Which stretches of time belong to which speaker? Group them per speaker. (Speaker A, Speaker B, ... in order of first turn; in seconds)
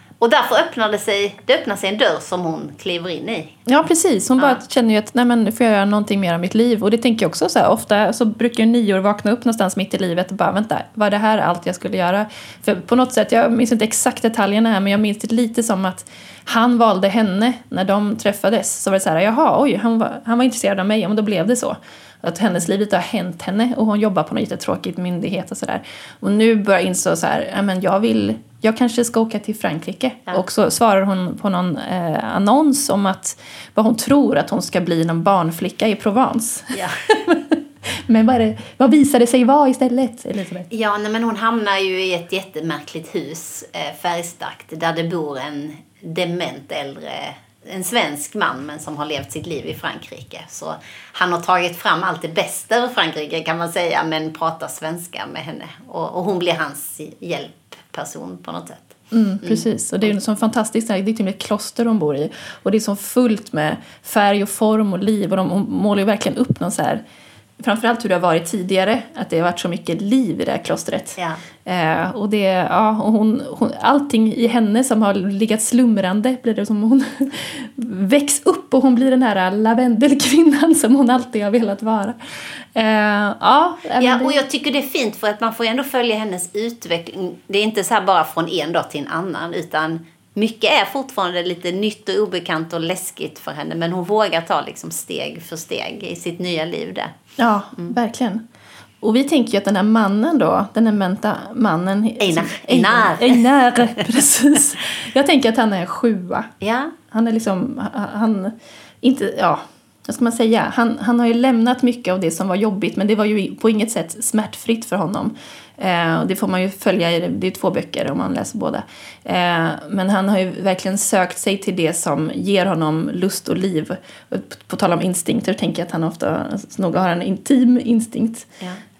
Speaker A: 0.2-3.5, 40.7-60.1, 84.0-97.1, 102.2-103.4, 106.6-106.9
Speaker B: 3.7-40.7, 59.1-67.0, 67.6-82.2, 82.7-84.4, 97.4-98.4, 99.0-106.5, 107.1-128.5